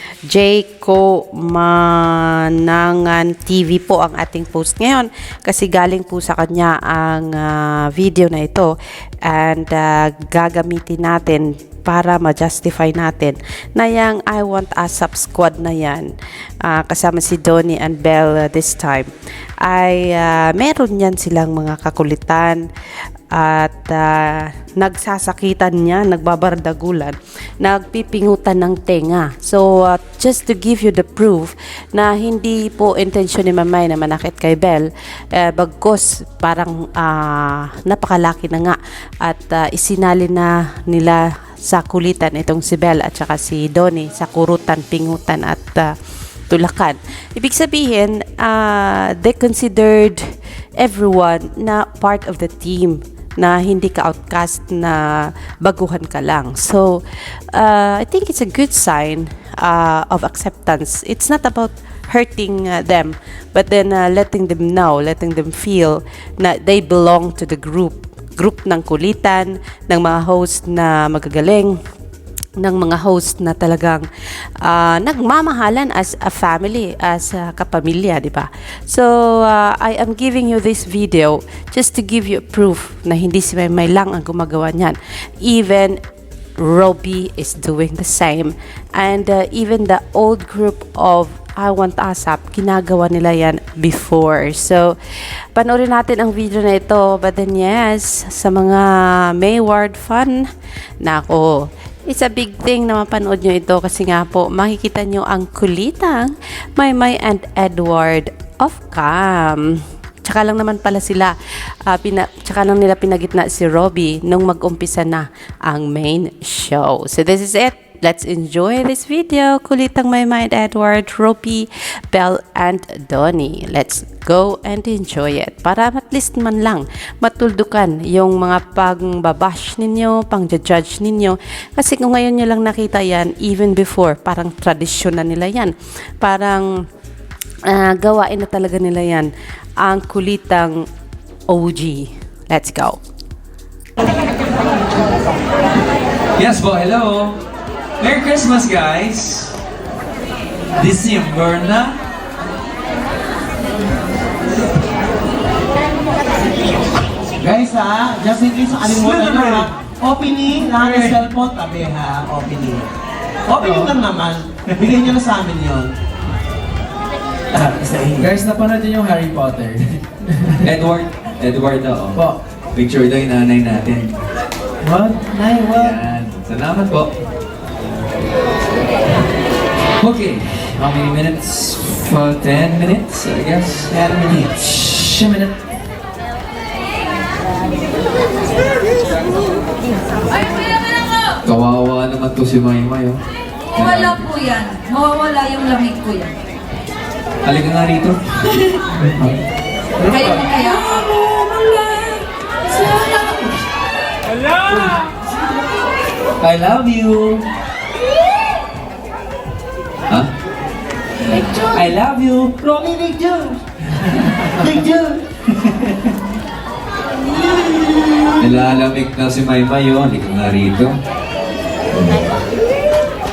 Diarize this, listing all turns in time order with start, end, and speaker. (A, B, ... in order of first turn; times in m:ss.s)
0:00.3-0:08.7 A
0:09.3-0:16.1 A
0:16.6-0:19.1 A
0:19.6-0:22.6 A
0:23.3-0:45.9 A
0:46.5-1:11.8 A
1:12.6-1:14.1 A
1:14.6-1:26.0 A
1:26.6-1:35.0 A
1:35.6-1:40.4 A
1:41.0-1:51.3 A
1:51.9-2:16.7 A
2:17.7-2:19.3 A
2:19.8-2:20.8 A
2:21.5-2:23.0 A
2:26.4-2:27.4 B
2:28.0-2:29.6 B
2:30.8-2:32.0 B
2:37.4-2:42.9 C
2:39.0-2:39.4 D
2:40.6-2:41.2 D
2:43.5-2:45.9 C
2:43.6-2:43.9 D
2:48.2-2:50.5 D
2:50.6-2:54.2 B
2:54.9-2:55.9 D
2:55.7-2:57.1 B
3:00.0-3:03.9 B
3:04.0-3:04.5 C
3:10.3-3:11.4 E
3:11.4-3:13.2 B
3:13.8-3:14.4 B
3:13.8-3:16.4 E
3:17.4-3:18.2 B
3:20.1-3:21.0 E
3:21.2-3:22.2 B
3:22.7-3:23.5 E
3:24.7-3:25.1 B
3:26.4-3:27.4 B
3:31.4-3:32.6 B
3:32.6-3:33.6 C
3:34.0-3:34.5 B
3:34.6-3:35.2 C
3:35.6-3:36.2 B
3:38.4-3:41.0 B
3:41.9-3:42.3 B